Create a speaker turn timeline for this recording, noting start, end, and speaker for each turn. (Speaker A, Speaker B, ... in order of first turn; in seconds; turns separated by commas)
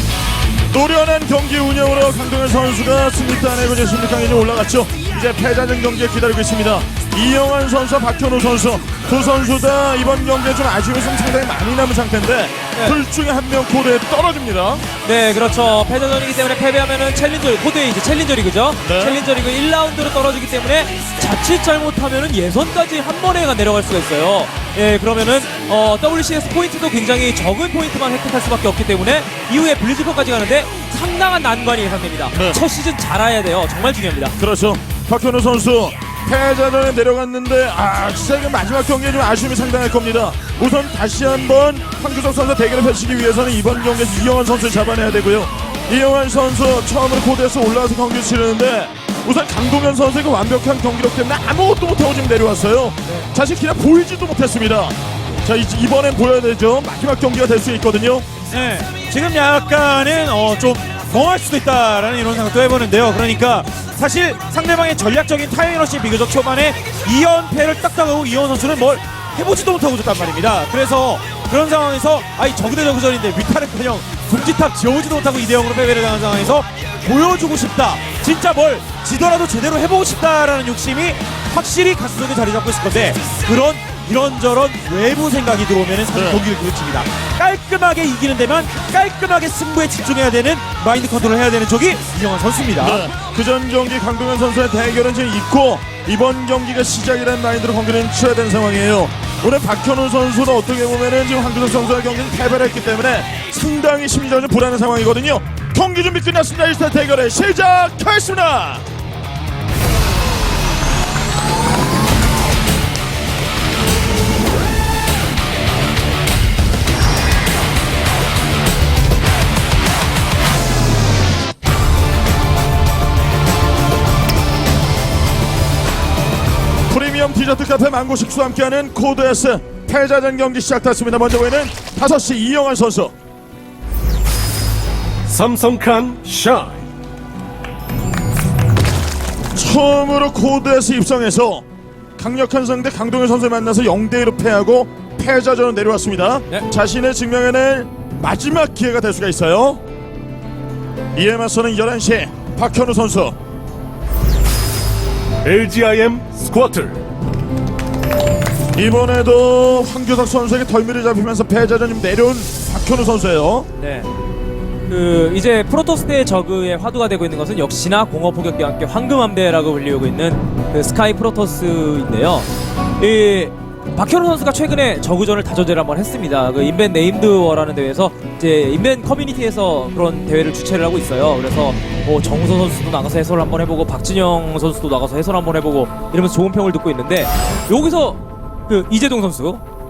Speaker A: 0.7-14.8, Speaker B: 15.0-34.4, Speaker A: 18.8-19.2, Speaker A: 32.3-32.6, Speaker A: 34.4-58.2, Speaker C: 58.5-93.1, Speaker A: 86.1-86.5, Speaker A: 92.8-108.8, Speaker A: 126.9-133.1, Speaker D: 135.2-136.8, Speaker A: 139.5-141.6, Speaker A: 142.2-149.8, Speaker A: 151.1-153.3, Speaker D: 155.4-157.0, Speaker A: 158.7-163.7, Speaker B: 163.8-164.1, Speaker B: 164.9-172.5, Speaker B: 173.0-189.6